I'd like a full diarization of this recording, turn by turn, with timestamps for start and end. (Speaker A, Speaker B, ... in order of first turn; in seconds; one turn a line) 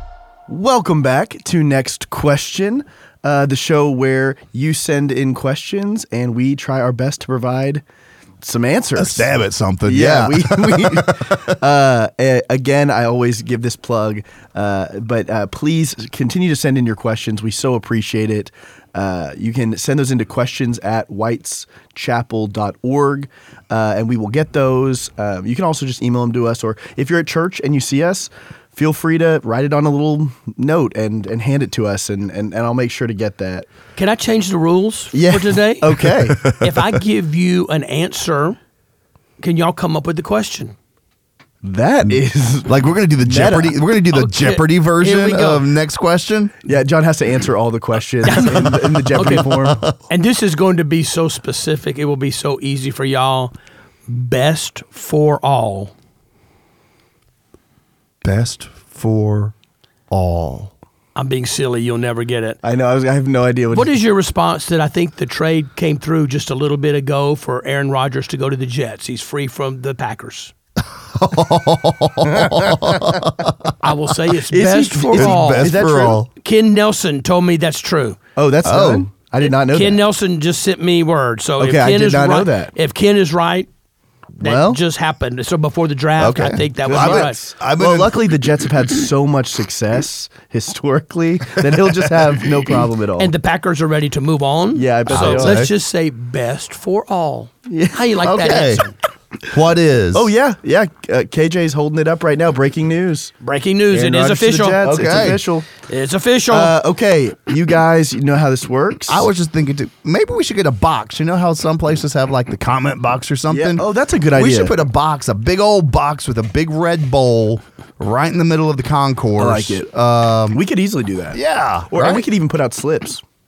Speaker A: 0.5-7.8
Speaker A: 8.4-9.3
Speaker B: 8.9-11.6
Speaker A: 9.8-33.7
Speaker C: 34.0-38.6
Speaker A: 35.1-36.4
Speaker B: 36.1-36.8
Speaker C: 39.4-40.7
Speaker A: 41.6-43.8
Speaker B: 42.0-46.7
Speaker C: 44.1-45.6
Speaker A: 46.6-49.8
Speaker C: 48.2-49.5
Speaker B: 48.4-50.0
Speaker C: 50.0-53.5
Speaker C: 54.1-55.9
Speaker B: 58.2-59.5
Speaker B: 60.1-60.7
Speaker C: 61.1-62.6
Speaker A: 62.6-64.0
Speaker C: 63.7-70.5
Speaker B: 71.0-73.7
Speaker A: 72.2-73.3
Speaker C: 73.8-75.7
Speaker A: 74.5-76.2
Speaker B: 75.2-76.3
Speaker C: 76.4-78.2
Speaker A: 78.3-80.0
Speaker B: 78.6-79.1
Speaker C: 79.4-83.7
Speaker A: 81.6-82.7
Speaker A: 84.4-84.8
Speaker C: 84.4-87.4
Speaker B: 86.2-88.2
Speaker A: 86.8-93.3
Speaker B: 92.1-92.8
Speaker C: 93.2-98.9
Speaker A: 94.7-95.7
Speaker B: 95.1-95.7
Speaker A: 97.7-98.0
Speaker B: 98.2-98.8
Speaker B: 99.4-100.3
Speaker A: 100.1-103.3
Speaker C: 103.4-104.8
Speaker A: 103.9-105.7
Speaker B: 104.8-105.4
Speaker C: 105.8-106.7
Speaker A: 106.5-109.3
Speaker B: 109.1-120.6
Speaker A: 113.5-114.8
Speaker A: 119.4-119.9
Speaker A: 120.5-123.2
Speaker B: 121.3-122.2